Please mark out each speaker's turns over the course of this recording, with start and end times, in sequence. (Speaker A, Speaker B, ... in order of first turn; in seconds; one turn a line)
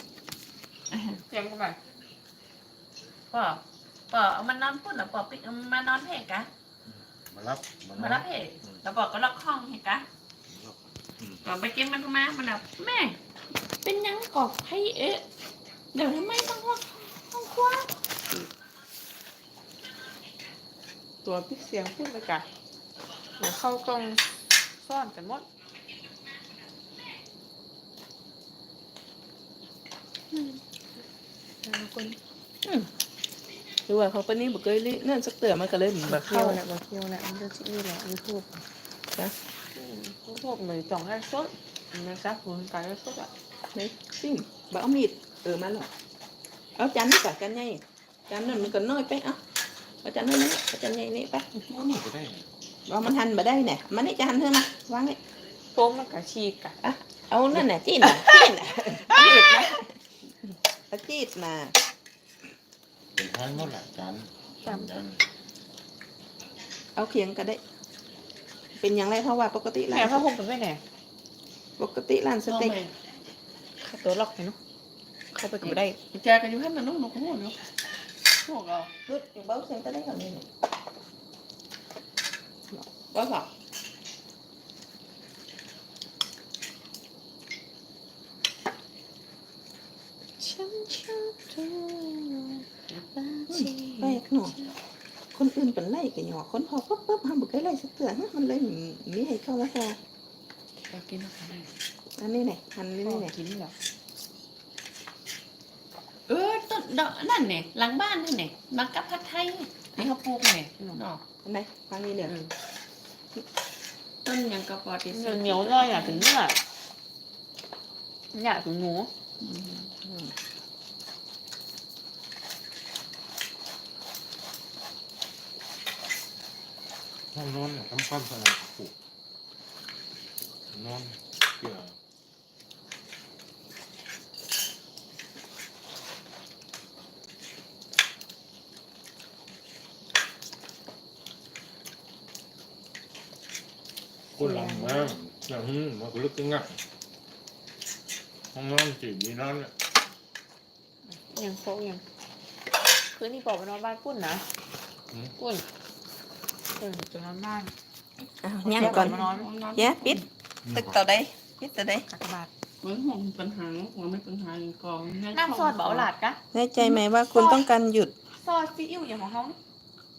Speaker A: 0.9-1.2
Speaker B: 1.3-1.8
Speaker A: 3.3-6.5
Speaker C: 7.3-8.8
Speaker A: 8.0-10.1
Speaker C: 10.5-11.4
Speaker A: 11.4-13.2
Speaker A: 13.8-15.2
Speaker A: 15.9-17.9
Speaker B: 21.2-22.4
Speaker B: 23.4-24.2
Speaker B: 24.8-25.4
Speaker D: 32.6-32.9
Speaker D: 33.9-36.6
Speaker B: 36.1-38.6
Speaker B: 39.8-43.3
Speaker D: 43.7-45.9
Speaker D: 46.8-49.4
Speaker D: 50.0-51.5
Speaker C: 51.7-52.5
Speaker D: 52.9-55.2
Speaker B: 55.7-56.7
Speaker D: 56.8-59.9
Speaker D: 60.9-61.7
Speaker C: 63.1-65.2
Speaker B: 64.7-65.0
Speaker D: 67.0-67.6
Speaker D: 68.8-70.2
Speaker B: 69.9-70.8
Speaker D: 71.8-72.8
Speaker A: 72.5-72.9
Speaker B: 73.8-74.6
Speaker B: 75.3-76.0
Speaker A: 75.6-77.6
Speaker A: 78.4-78.9
Speaker D: 79.0-80.5
Speaker A: 83.1-83.5
Speaker B: 90.4-92.3
Speaker A: 92.9-94.2
Speaker D: 93.5-94.5
Speaker D: 95.3-100.0
Speaker A: 100.9-101.7
Speaker D: 102.2-103.3
Speaker B: 103.0-103.7
Speaker A: 106.3-111.2
Speaker D: 111.4-112.3
Speaker A: 114.2-116.2
Speaker B: 115.1-116.5
Speaker B: 118.3-119.1
Speaker A: 119.4-119.9
Speaker D: 120.0-120.3
Speaker C: 127.3-128.9
Speaker C: 130.7-131.9
Speaker C: 144.4-146.8
Speaker B: 144.4-145.2
Speaker C: 148.5-149.7
Speaker B: 151.3-152.0
Speaker B: 153.1-154.4
Speaker B: 155.4-155.6
Speaker B: 156.8-157.7
Speaker D: 158.4-159.2
Speaker B: 158.6-159.5
Speaker A: 158.7-160.2
Speaker D: 159.7-162.1
Speaker C: 160.7-160.9
Speaker B: 162.1-162.5
Speaker A: 162.8-166.1
Speaker B: 165.3-167.6
Speaker D: 166.5-168.1
Speaker B: 168.4-169.6